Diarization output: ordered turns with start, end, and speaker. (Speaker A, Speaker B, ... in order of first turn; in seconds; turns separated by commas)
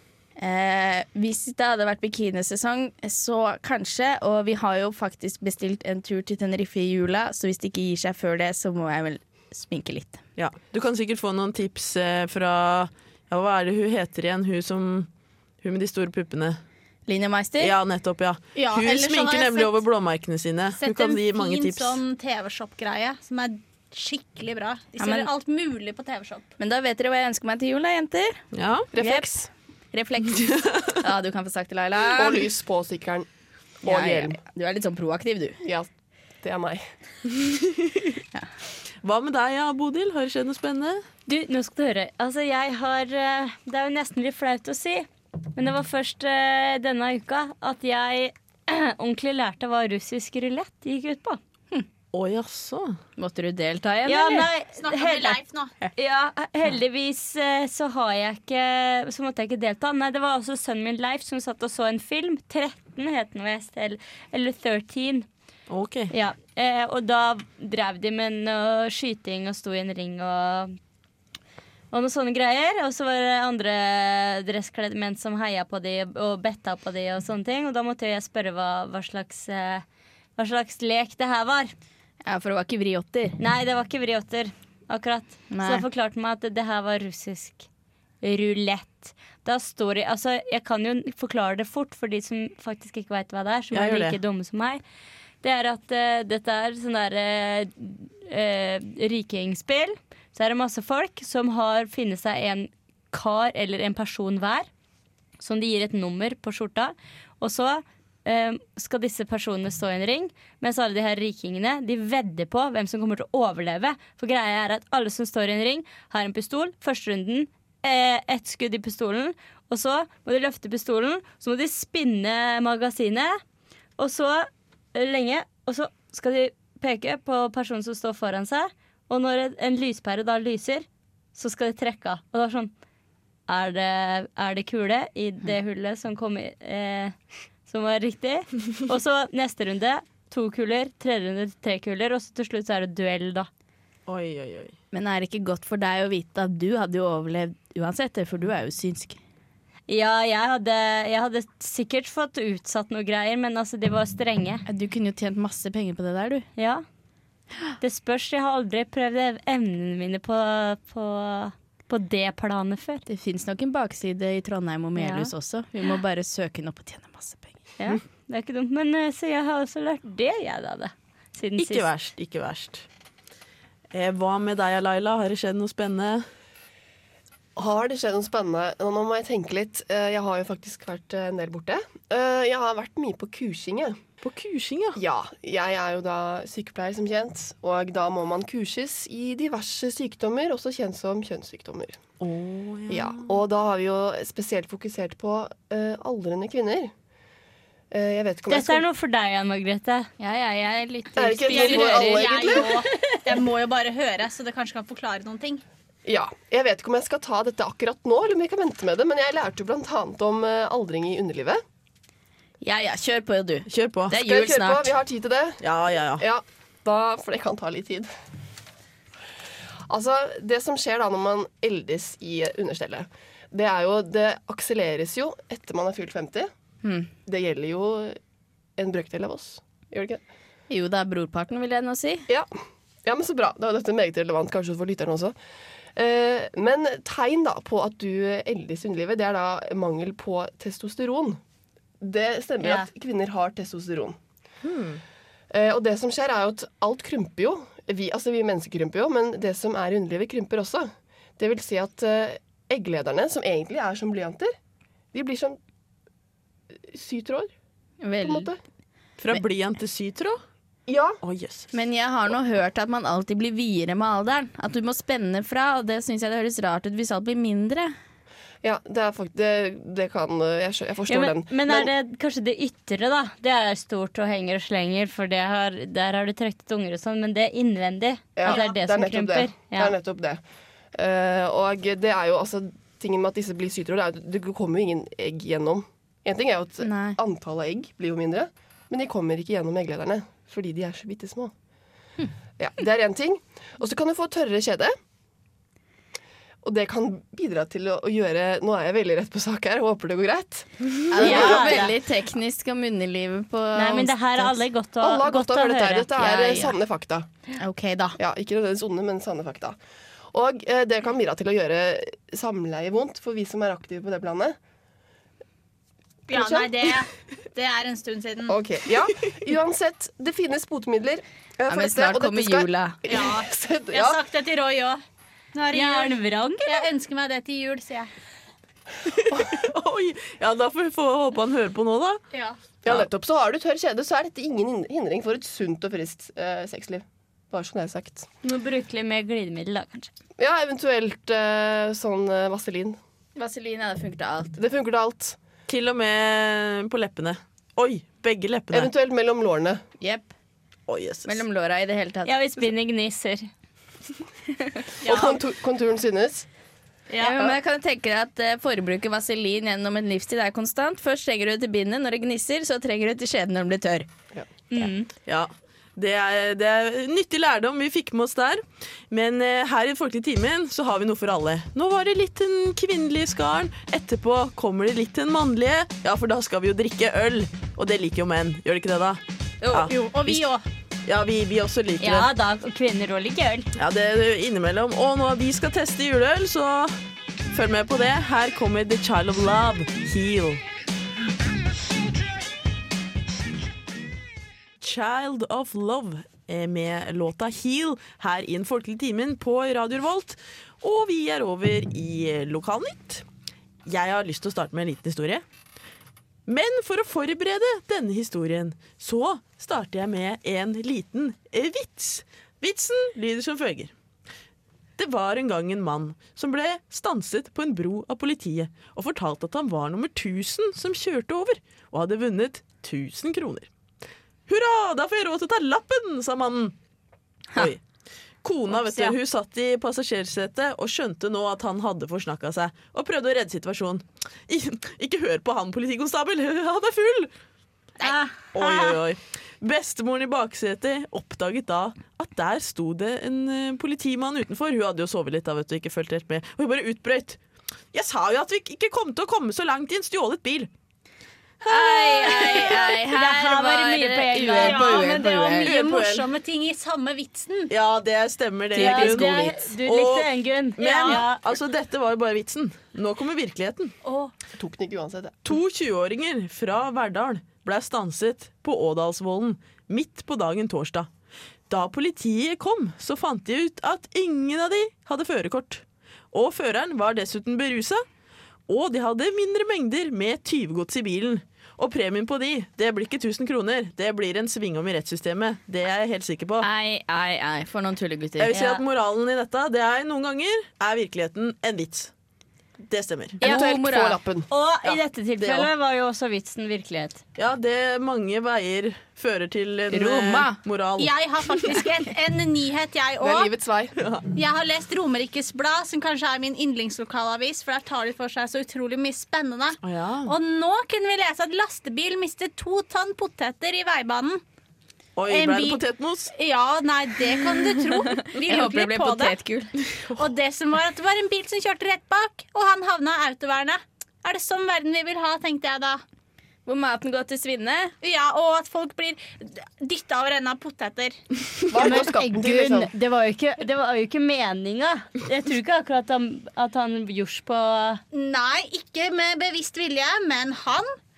Speaker A: 0.4-10.2, Speaker B: 10.4-15.1, Speaker B: 15.6-16.6, Speaker A: 17.1-17.8, Speaker B: 17.6-22.0, Speaker C: 18.6-19.8, Speaker C: 20.8-26.5, Speaker A: 25.0-25.3, Speaker A: 26.6-28.4, Speaker B: 28.5-28.9, Speaker D: 28.9-29.5, Speaker A: 28.9-32.5, Speaker B: 30.4-31.0, Speaker D: 32.1-33.3, Speaker D: 33.8-34.4, Speaker A: 33.8-35.6, Speaker D: 35.6-35.9, Speaker D: 36.4-36.9, Speaker B: 37.4-38.2, Speaker B: 39.0-41.0, Speaker E: 41.3-51.4, Speaker B: 52.1-53.0, Speaker A: 53.2-54.5, Speaker E: 54.0-55.4, Speaker C: 54.8-55.7, Speaker E: 56.0-65.3, Speaker B: 65.7-66.1, Speaker E: 66.1-70.8, Speaker E: 71.9-79.8, Speaker E: 80.4-81.7, Speaker A: 82.2-83.4, Speaker E: 83.4-87.7, Speaker A: 85.5-85.8, Speaker E: 88.2-94.8, Speaker B: 93.7-94.2, Speaker E: 95.4-104.7, Speaker E: 105.4-123.4, Speaker E: 124.0-132.7, Speaker E: 133.5-137.2, Speaker E: 137.7-143.5, Speaker B: 144.1-144.8, Speaker A: 144.9-149.2, Speaker E: 149.9-154.7, Speaker A: 154.7-156.5, Speaker E: 156.6-156.8, Speaker E: 157.8-163.0, Speaker A: 163.1-167.6, Speaker E: 165.0-165.3, Speaker E: 167.8-171.9, Speaker B: 171.6-172.8, Speaker B: 173.9-176.3, Speaker D: 177.6-184.0, Speaker B: 184.2-185.0, Speaker D: 185.0-192.0, Speaker B: 192.2-193.3, Speaker D: 192.9-196.9, Speaker D: 197.9-198.8, Speaker E: 198.5-200.1, Speaker A: 200.2-203.2, Speaker D: 201.2-202.8, Speaker C: 201.5-205.6, Speaker D: 206.1-211.6, Speaker A: 212.6-214.9, Speaker B: 213.7-214.2, Speaker D: 214.2-215.6, Speaker B: 215.6-216.3, Speaker D: 216.2-218.1, Speaker D: 219.9-226.5, Speaker A: 226.8-227.1, Speaker D: 227.3-228.2, Speaker D: 228.8-230.2, Speaker A: 230.7-232.3, Speaker D: 233.1-235.4, Speaker D: 236.0-241.4, Speaker D: 242.0-244.2, Speaker E: 242.6-242.9, Speaker B: 244.6-245.0, Speaker D: 245.5-254.5, Speaker D: 255.1-255.6, Speaker D: 256.7-257.5, Speaker A: 258.0-258.5, Speaker D: 258.2-258.6, Speaker B: 259.2-260.4, Speaker D: 260.9-261.2, Speaker B: 261.2-261.7, Speaker A: 261.7-267.9, Speaker D: 268.6-271.9, Speaker E: 271.1-279.9, Speaker D: 278.4-280.4, Speaker D: 280.9-291.5, Speaker A: 286.8-287.2, Speaker D: 292.6-294.9, Speaker D: 296.6-301.9, Speaker A: 301.1-304.6, Speaker E: 301.2-301.9, Speaker E: 303.8-306.6, Speaker D: 305.0-307.3, Speaker A: 306.2-306.7, Speaker A: 307.6-308.2, Speaker D: 308.2-309.8, Speaker D: 310.3-314.6, Speaker D: 316.3-316.9, Speaker C: 316.3-318.6, Speaker D: 318.5-324.2, Speaker A: 321.7-323.0, Speaker C: 323.1-325.0, Speaker E: 325.6-326.9, Speaker C: 325.6-328.1, Speaker B: 329.1-332.2, Speaker D: 332.8-338.3, Speaker E: 338.4-340.1, Speaker D: 340.4-343.0, Speaker A: 343.4-344.6, Speaker D: 344.6-345.4, Speaker B: 345.7-348.9, Speaker D: 348.7-349.8, Speaker A: 350.0-350.3, Speaker B: 350.9-351.4, Speaker A: 351.2-352.6, Speaker E: 352.2-353.5, Speaker A: 354.5-354.9, Speaker C: 355.0-355.4, Speaker D: 355.1-356.5, Speaker A: 357.2-364.1, Speaker D: 357.3-357.6, Speaker E: 364.7-365.1, Speaker B: 365.3-380.4, Speaker C: 379.6-380.6, Speaker B: 381.1-382.3, Speaker E: 382.0-383.7, Speaker B: 383.8-386.9, Speaker B: 387.5-390.6, Speaker B: 394.8-403.2, Speaker B: 403.9-405.4, Speaker B: 406.5-413.9, Speaker B: 415.0-423.7, Speaker B: 424.5-426.8, Speaker B: 427.6-427.8, Speaker B: 428.4-437.3, Speaker A: 428.9-429.1, Speaker C: 438.0-438.6, Speaker B: 438.5-447.4, Speaker B: 447.9-450.7, Speaker A: 451.6-455.8, Speaker B: 452.1-452.7, Speaker E: 452.2-455.3, Speaker C: 454.6-457.7, Speaker B: 455.6-456.3, Speaker B: 457.7-464.0, Speaker A: 458.8-459.5, Speaker E: 458.8-461.4, Speaker D: 464.6-465.4, Speaker B: 465.4-471.1, Speaker B: 471.7-478.0, Speaker B: 478.7-486.7, Speaker A: 486.6-488.6, Speaker B: 488.4-492.1, Speaker E: 488.5-488.8, Speaker B: 492.9-493.4, Speaker A: 493.4-494.2, Speaker D: 493.4-494.5, Speaker E: 494.5-497.2, Speaker B: 494.9-495.7, Speaker B: 497.4-501.8, Speaker A: 499.9-500.6, Speaker C: 501.0-503.5, Speaker D: 503.2-503.9, Speaker B: 504.0-504.3, Speaker C: 504.3-514.4, Speaker B: 509.8-510.3, Speaker B: 515.2-516.3, Speaker C: 515.3-519.4, Speaker A: 517.8-519.7, Speaker B: 519.9-520.2, Speaker C: 520.2-526.0, Speaker A: 526.7-527.9, Speaker C: 528.0-531.2, Speaker D: 531.7-532.9, Speaker E: 531.8-538.0, Speaker C: 538.1-540.9